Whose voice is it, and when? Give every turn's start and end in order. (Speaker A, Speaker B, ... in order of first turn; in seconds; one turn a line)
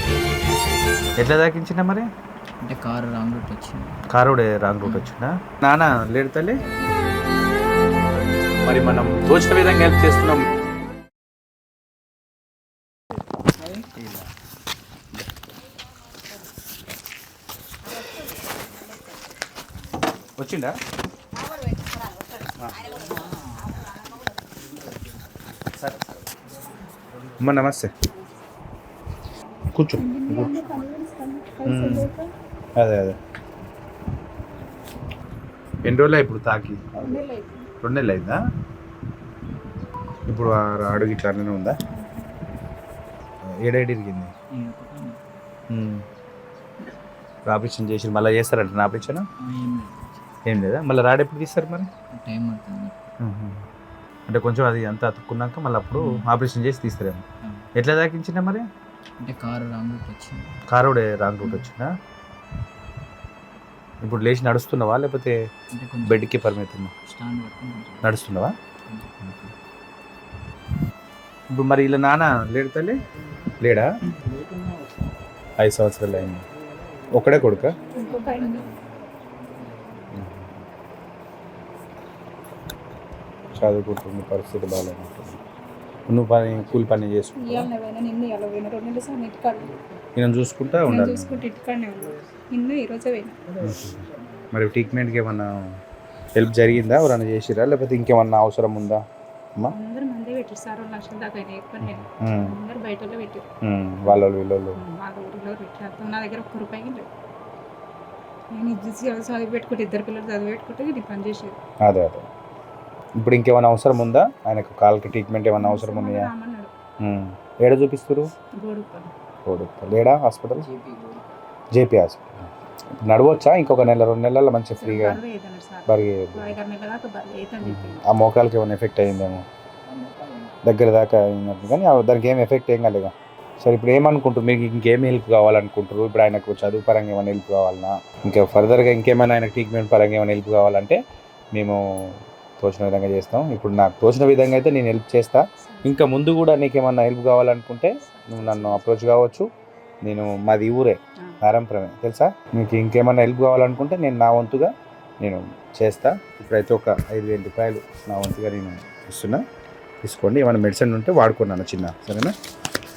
Speaker A: 1.2-2.1
Speaker B: 2.6-4.0
Speaker A: 4.1-6.6
Speaker B: 4.8-5.1
Speaker A: 8.6-10.4
Speaker B: 13.7-14.3
Speaker A: 20.4-20.8
Speaker B: 22.8-23.4
Speaker A: 27.4-27.9
Speaker A: 29.7-30.6
Speaker C: 29.9-32.3
Speaker A: 31.7-32.1
Speaker A: 32.8-33.2
Speaker A: 35.8-37.1
Speaker C: 37.0-37.7
Speaker A: 37.8-38.4
Speaker A: 40.3-41.8
Speaker C: 41.8-42.4
Speaker A: 43.6-44.3
Speaker B: 44.5-45.2
Speaker A: 45.7-46.0
Speaker A: 47.5-49.2
Speaker B: 49.4-50.3
Speaker A: 50.5-51.9
Speaker B: 52.1-53.0
Speaker A: 53.2-53.6
Speaker A: 54.3-57.2
Speaker B: 55.9-56.3
Speaker A: 57.8-58.6
Speaker B: 59.2-60.6
Speaker A: 60.7-61.9
Speaker A: 64.0-65.4
Speaker B: 65.7-68.2
Speaker A: 66.1-66.9
Speaker A: 68.0-68.5
Speaker B: 68.9-69.5
Speaker A: 71.5-73.0
Speaker A: 73.6-73.9
Speaker A: 75.6-76.4
Speaker A: 77.1-77.8
Speaker C: 78.0-78.7
Speaker B: 78.0-78.9
Speaker A: 80.1-80.6
Speaker A: 83.5-85.4
Speaker A: 86.1-87.7
Speaker B: 86.5-87.0
Speaker C: 87.4-89.8
Speaker A: 90.2-91.5
Speaker C: 90.9-93.4
Speaker A: 93.6-95.7
Speaker A: 96.4-99.0
Speaker C: 99.7-103.4
Speaker A: 101.8-102.5
Speaker A: 103.6-104.8
Speaker C: 104.8-107.1
Speaker C: 108.5-111.6
Speaker A: 111.8-112.3
Speaker A: 113.2-116.3
Speaker C: 115.6-116.7
Speaker A: 117.0-118.3
Speaker C: 118.6-119.1
Speaker A: 119.5-120.7
Speaker B: 120.6-121.3
Speaker A: 121.7-125.2
Speaker C: 124.8-128.1
Speaker A: 125.9-126.5
Speaker A: 127.6-129.4
Speaker B: 129.9-130.6
Speaker A: 130.6-141.0
Speaker A: 141.6-141.8
Speaker A: 142.6-149.4
Speaker C: 145.6-146.1
Speaker C: 148.0-148.9
Speaker A: 150.0-154.7
Speaker A: 155.2-159.4
Speaker A: 160.0-162.3